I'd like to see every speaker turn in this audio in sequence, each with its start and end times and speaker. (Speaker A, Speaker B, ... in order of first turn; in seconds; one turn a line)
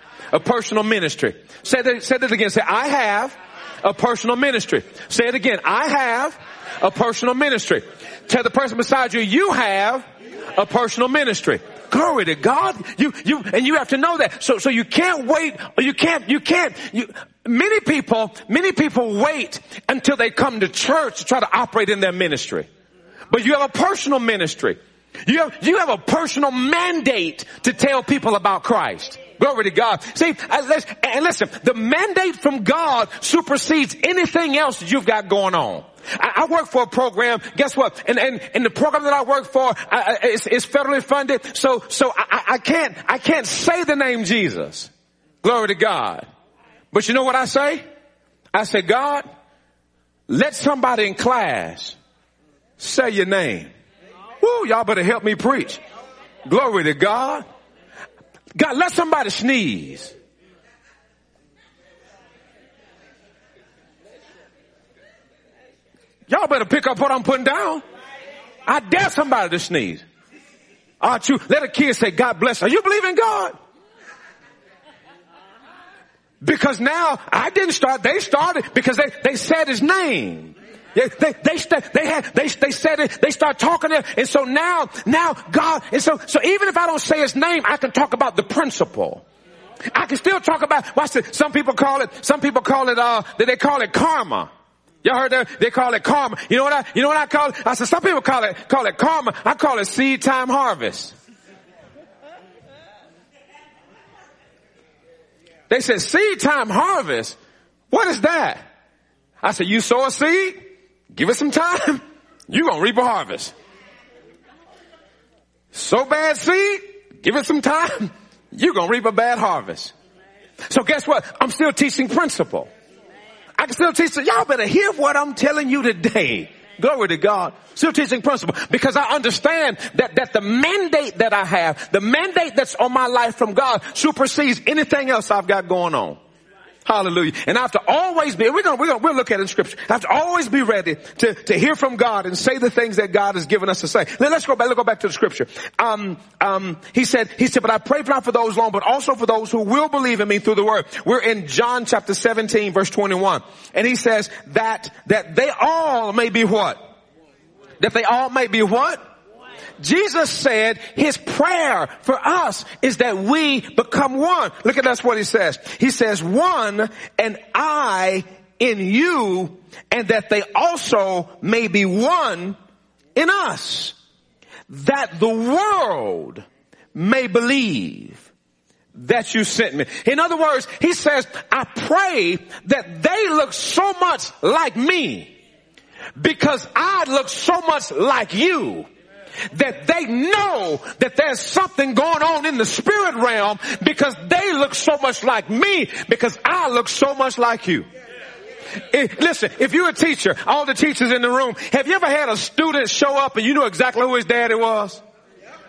Speaker A: 0.3-22.7
Speaker A: 23.3-44.9
Speaker A: 45.4-46.3
Speaker A: 46.9-47.8
Speaker A: 48.5-49.2
Speaker A: 50.3-52.0
Speaker A: 52.8-53.7
Speaker A: 54.4-55.8
Speaker A: 56.5-57.5
Speaker A: 58.5-60.1
Speaker A: 66.3-67.8
Speaker A: 68.7-70.0
Speaker A: 71.0-73.5
Speaker A: 76.4-89.2
Speaker A: 89.9-94.5
Speaker A: 95.0-101.1
Speaker A: 105.7-107.4
Speaker A: 107.9-108.6
Speaker A: 109.4-110.6
Speaker A: 111.1-113.5
Speaker A: 115.7-119.9
Speaker A: 120.7-122.7
Speaker A: 123.6-136.2
Speaker A: 136.8-156.8
Speaker A: 157.8-159.0
Speaker A: 159.8-172.6
Speaker A: 173.2-173.9
Speaker A: 174.7-178.3
Speaker A: 178.9-185.3
Speaker A: 186.2-188.9
Speaker A: 189.5-197.9
Speaker A: 198.8-205.0